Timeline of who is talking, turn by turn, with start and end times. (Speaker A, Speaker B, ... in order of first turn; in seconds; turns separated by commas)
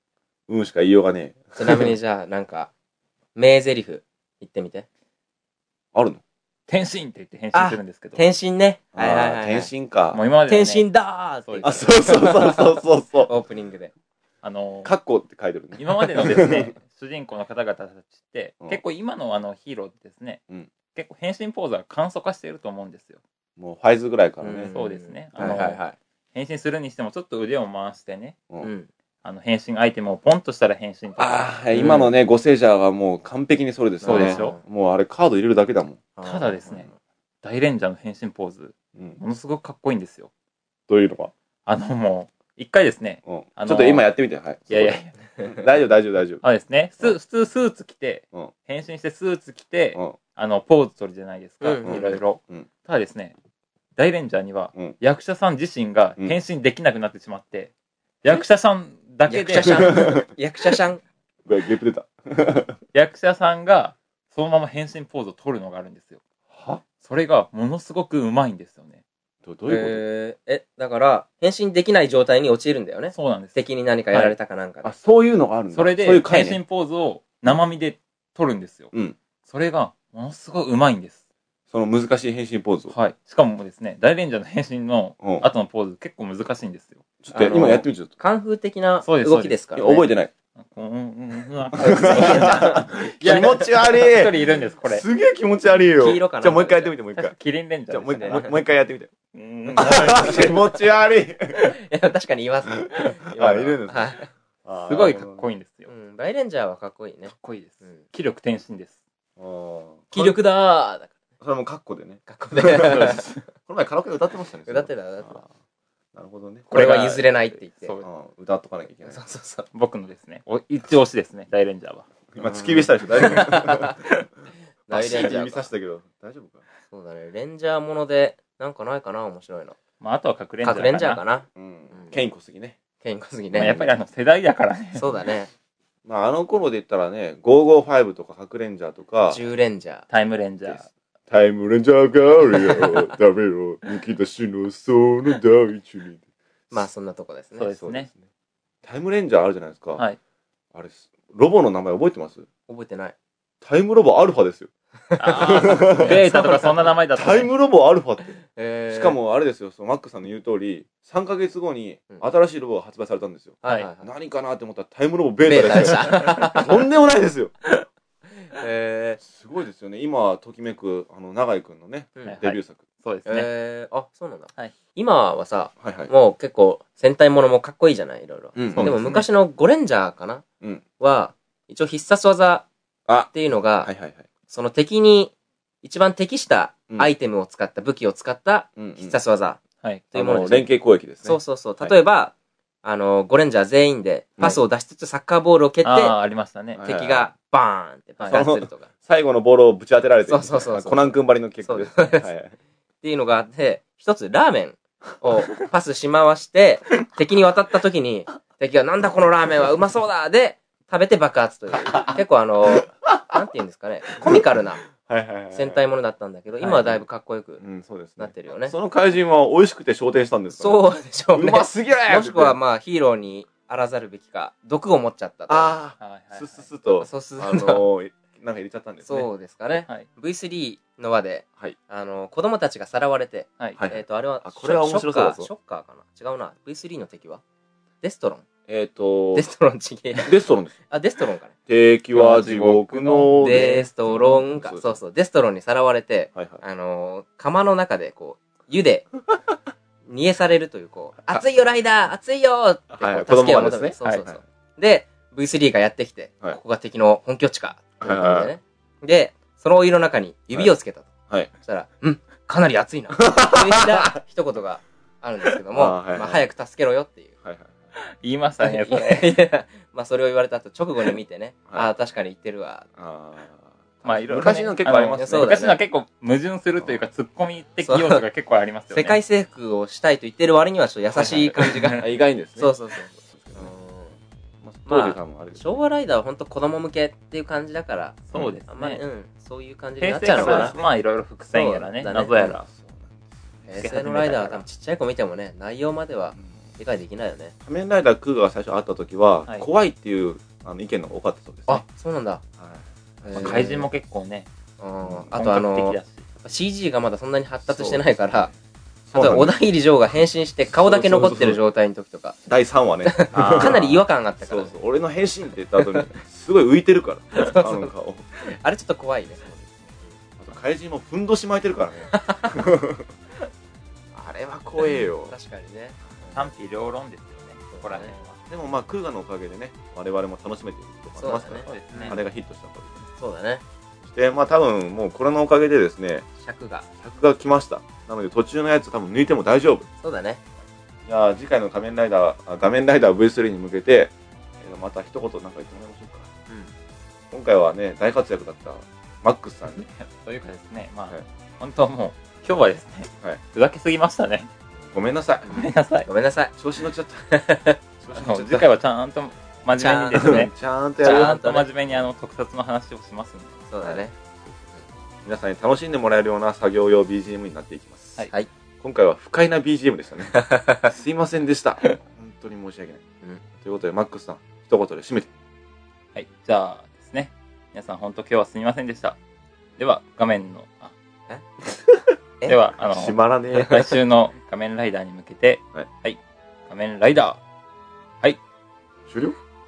Speaker A: 0.5-1.9, Speaker B: 1.6-2.7, Speaker B: 3.4-4.9, Speaker A: 5.9-6.2, Speaker C: 6.7-8.2, Speaker B: 7.5-9.7, Speaker A: 8.9-10.2, Speaker C: 10.1-10.9, Speaker B: 10.5-13.9, Speaker C: 11.4-11.9, Speaker A: 11.6-13.3, Speaker C: 14.4-14.9, Speaker A: 14.8-16.7, Speaker C: 15.8-20.4, Speaker C: 20.9-23.2, Speaker A: 23.6-24.7, Speaker B: 24.4-26.0, Speaker C: 24.7-25.8, Speaker C: 26.3-28.4, Speaker B: 28.6-28.9, Speaker C: 29.2-32.0, Speaker A: 31.2-36.0, Speaker B: 31.7-32.1, Speaker B: 34.0-34.6, Speaker C: 34.0-34.6, Speaker B: 36.2-36.9, Speaker C: 36.2-36.9, Speaker C: 37.4-40.3, Speaker A: 40.9-41.3, Speaker C: 41.7-44.1, Speaker A: 43.3-46.4, Speaker C: 44.7-45.1, Speaker C: 46.4-53.4, Speaker B: 51.6-52.2, Speaker A: 51.9-52.7, Speaker C: 54.0-57.7, Speaker C: 58.2-60.1, Speaker B: 59.3-61.0, Speaker A: 59.6-60.2, Speaker A: 61.5-62.8, Speaker C: 62.9-66.2, Speaker A: 66.5-66.8, Speaker C: 67.0-69.0, Speaker A: 69.5-70.0, Speaker B: 69.7-74.9, Speaker C: 73.2-73.6, Speaker A: 74.8-76.6, Speaker C: 75.7-78.9, Speaker A: 78.9-79.2, Speaker C: 79.5-81.2, Speaker A: 81.7-82.9, Speaker C: 82.9-87.0, Speaker A: 85.2-85.5, Speaker A: 87.2-88.1, Speaker B: 87.3-90.1, Speaker C: 89.0-89.6, Speaker A: 89.8-90.3, Speaker C: 90.6-95.0, Speaker B: 91.8-93.7, Speaker A: 91.9-97.3, Speaker B: 96.0-96.9, Speaker C: 97.2-98.5, Speaker A: 97.9-99.1, Speaker B: 98.2-98.5, Speaker C: 99.3-100.5, Speaker A: 99.7-101.6, Speaker B: 99.9-100.7, Speaker B: 101.5-104.3, Speaker A: 103.3-105.4, Speaker C: 104.9-105.9, Speaker B: 105.9-107.3, Speaker C: 107.3-109.0, Speaker A: 109.4-110.4, Speaker B: 110.1-111.1, Speaker A: 111.4-115.5, Speaker B: 112.3-113.3, Speaker B: 114.7-115.4, Speaker A: 116.1-116.7, Speaker B: 116.7-117.9, Speaker C: 116.7-118.1, Speaker A: 118.0-119.2, Speaker B: 119.1-119.7, Speaker C: 119.7-122.1, Speaker A: 122.3-124.0, Speaker B: 122.4-124.0, Speaker C: 123.2-123.5, Speaker B: 124.9-125.7, Speaker A: 124.9-126.6, Speaker B: 126.9-129.8, Speaker C: 130.0-131.2, Speaker B: 130.6-132.2, Speaker A: 131.6-132.8, Speaker B: 133.0-133.9, Speaker A: 133.5-133.9, Speaker C: 133.6-135.2, Speaker B: 135.0-135.5, Speaker A: 136.1-139.4, Speaker B: 139.3-140.1, Speaker C: 140.1-140.9, Speaker A: 140.7-146.2, Speaker B: 146.7-147.7, Speaker C: 147.6-148.1, Speaker A: 147.8-148.2, Speaker A: 148.8-150.0, Speaker A: 150.7-152.5, Speaker B: 152.7-153.2, Speaker A: 153.6-154.7, Speaker B: 155.1-156.9, Speaker C: 155.2-157.5, Speaker A: 155.4-156.3, Speaker A: 157.1-158.4, Speaker B: 158.6-159.2, Speaker A: 158.9-167.5, Speaker B: 163.6-164.1, Speaker B: 165.4-166.7, Speaker B: 168.4-169.2, Speaker A: 169.2-172.8, Speaker C: 172.3-173.5, Speaker B: 173.3-180.4, Speaker A: 175.8-176.1, Speaker A: 178.6-179.2, Speaker C: 178.8-179.3, Speaker B: 181.0-182.7, Speaker A: 183.1-183.3, Speaker B: 183.3-183.9, Speaker A: 183.8-184.2, Speaker B: 184.5-189.6, Speaker A: 188.8-189.2, Speaker B: 190.1-190.7, Speaker A: 190.1-192.0, Speaker B: 191.2-196.2, Speaker C: 195.8-196.8, Speaker A: 196.7-197.3, Speaker B: 196.8-198.9, Speaker A: 198.3-202.5, Speaker B: 200.3-202.3, Speaker B: 203.0-214.8, Speaker A: 212.7-213.4, Speaker A: 214.2-214.4, Speaker A: 214.9-215.8, Speaker B: 215.6-217.6, Speaker A: 216.7-217.0, Speaker A: 217.6-222.6, Speaker B: 218.2-218.8, Speaker B: 220.5-225.8, Speaker A: 225.5-229.3, Speaker C: 226.0-226.7, Speaker B: 227.0-227.8, Speaker B: 229.1-237.4, Speaker A: 233.8-235.5, Speaker B: 238.0-238.4, Speaker A: 238.7-239.4, Speaker B: 239.3-240.4, Speaker A: 240.2-240.8, Speaker B: 240.9-241.5, Speaker A: 241.7-244.8, Speaker C: 242.1-244.3, Speaker B: 243.4-249.1, Speaker A: 246.3-246.6, Speaker B: 250.1-267.4, Speaker A: 252.9-254.4, Speaker A: 258.0-258.5, Speaker A: 263.1-264.1, Speaker A: 265.7-266.5, Speaker A: 267.4-267.8, Speaker C: 268.2-269.4, Speaker B: 268.6-272.9, Speaker A: 273.0-275.7, Speaker C: 274.1-279.2, Speaker B: 274.4-275.8, Speaker B: 277.9-278.2, Speaker B: 278.9-282.1, Speaker A: 281.2-283.7, Speaker C: 281.6-282.0, Speaker B: 282.6-284.2, Speaker A: 284.6-285.8, Speaker B: 284.9-290.8, Speaker C: 288.3-289.0, Speaker C: 290.0-292.7, Speaker A: 290.3-290.8, Speaker B: 291.5-292.6, Speaker A: 292.7-293.2, Speaker B: 293.7-297.5, Speaker C: 293.8-294.6, Speaker A: 297.6-301.8, Speaker B: 301.7-302.4, Speaker A: 302.6-303.6, Speaker B: 303.2-303.9, Speaker C: 303.3-304.5, Speaker B: 304.8-308.5, Speaker C: 305.3-306.2, Speaker A: 307.7-308.1, Speaker A: 309.1-309.6, Speaker B: 309.1-312.4, Speaker A: 310.7-311.6, Speaker A: 312.5-318.3, Speaker B: 313.1-314.7, Speaker C: 313.4-313.8, Speaker B: 315.8-316.1, Speaker B: 317.3-319.4, Speaker A: 319.4-323.1, Speaker B: 322.1-322.6, Speaker A: 324.1-325.3, Speaker B: 324.8-326.3, Speaker C: 326.3-328.4, Speaker B: 327.7-328.2, Speaker A: 328.5-333.1, Speaker B: 331.2-332.2, Speaker C: 331.7-332.2, Speaker B: 333.2-333.6, Speaker A: 334.0-336.3, Speaker B: 336.4-336.9, Speaker A: 337.0-339.9, Speaker B: 340.0-340.4, Speaker A: 341.1-346.3, Speaker A: 347.3-349.9, Speaker C: 349.8-354.5, Speaker A: 354.9-355.7, Speaker C: 355.5-356.1, Speaker B: 356.1-356.6, Speaker A: 356.6-357.2, Speaker B: 357.3-357.8, Speaker A: 358.0-358.7, Speaker C: 358.1-363.6, Speaker B: 359.8-360.4, Speaker A: 360.1-361.5, Speaker B: 361.0-361.7, Speaker B: 363.7-364.1, Speaker A: 363.8-364.7, Speaker A: 365.2-368.3, Speaker A: 368.8-373.0, Speaker B: 370.4-370.9, Speaker A: 373.6-375.3, Speaker C: 376.1-379.2, Speaker C: 379.8-380.9, Speaker C: 382.5-387.4, Speaker A: 382.9-384.0, Speaker A: 389.1-389.4